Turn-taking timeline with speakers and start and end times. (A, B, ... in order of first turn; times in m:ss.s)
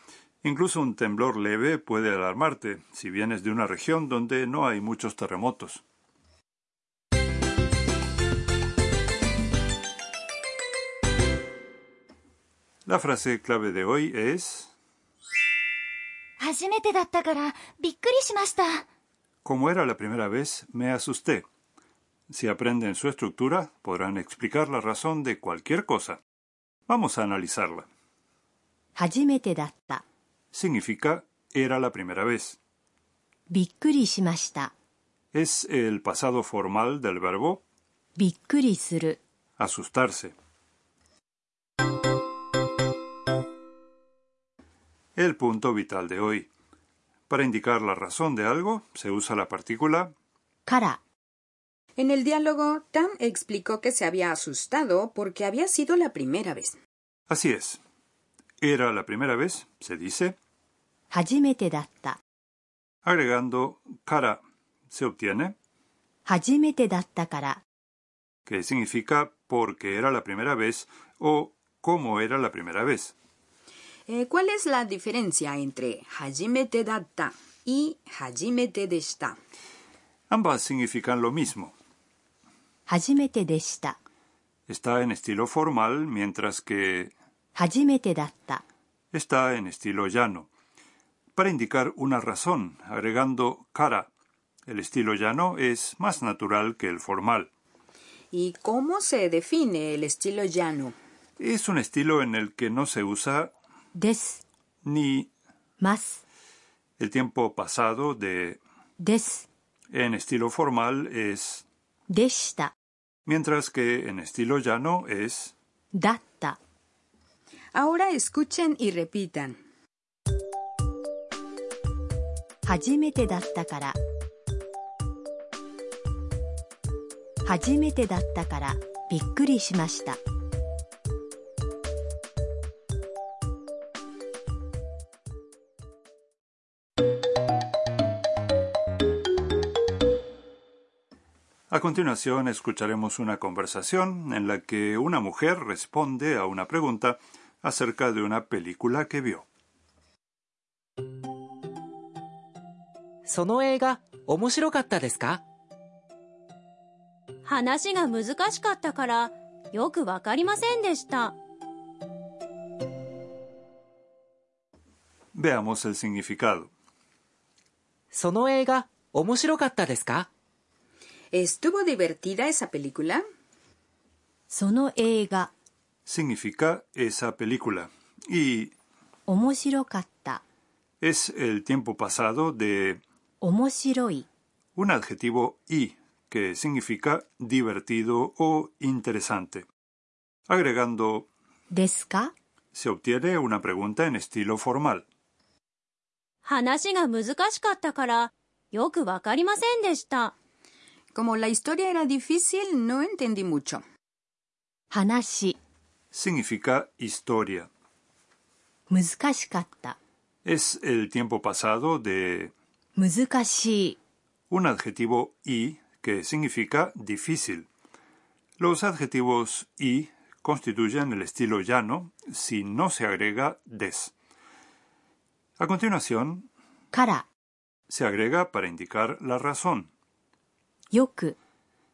0:00.4-0:05.8 A
0:12.9-0:14.7 A
0:16.4-0:18.8 B
0:19.4-0:21.5 A
0:22.3-0:26.2 A
0:26.9-0:27.9 A
0:29.0-0:30.0 C
0:30.5-0:32.6 A
0:33.5-0:34.7 C
0:35.3-0:37.6 A
0:38.2-0:39.2 C
0:39.6-0:40.4 A
0:45.2-0:46.5 A
0:47.3-0:50.1 A
0:50.7-0:51.0 C
0:52.0-0:56.8 D
0:57.3-0:57.8 A
0:58.6-1:00.4 A
1:01.1-1:02.2 C
1:03.0-1:05.6 A
1:06.3-1:07.6 C
1:08.5-1:13.1 A
1:14.1-1:19.4 D
1:20.3-1:21.8 A
1:22.9-1:24.0 C
1:24.7-1:27.1 A
1:27.6-1:28.6 C
1:29.1-1:30.5 A
1:31.4-1:34.1 A
1:34.7-1:37.5 A
1:38.3-1:41.0 D
1:41.4-1:43.5 A
1:44.0-1:44.4 C
1:44.8-1:45.3 A
1:45.8-1:46.2 C
1:47.0-1:48.6 A
1:49.0-1:49.5 C
1:49.9-1:51.6 A
1:52.1-1:52.7 C
1:53.3-1:55.5 A
1:55.9-1:56.6 C
1:57.7-1:59.6 D
2:02.6-2:04.0 C
2:07.4-2:10.2 C
2:21.7-2:29.5 A
2:33.2-2:35.4 E
2:37.4-2:41.4 F
2:45.3-2:46.7 A
2:48.1-2:50.3 E
2:51.3-2:53.2 D
2:54.5-2:55.5 C
2:56.1-2:58.7 A
2:59.3-3:00.4 C
3:01.0-3:03.0 A
3:03.4-3:04.3 C
3:04.8-3:09.7 A
3:10.5-3:11.3 A
3:11.7-3:12.3 C
3:12.7-3:15.1 A
3:16.4-3:20.3 F
3:21.1-3:23.8 D
3:24.9-3:25.6 C
3:26.1-3:27.7 A
3:28.9-3:30.0 C
3:30.4-3:32.5 A
3:33.0-3:34.0 C
3:34.5-3:37.7 A
3:38.6-3:44.1 A
3:45.6-3:46.5 A
3:46.9-3:47.3 C
3:47.9-3:49.9 A
3:50.9-3:51.4 C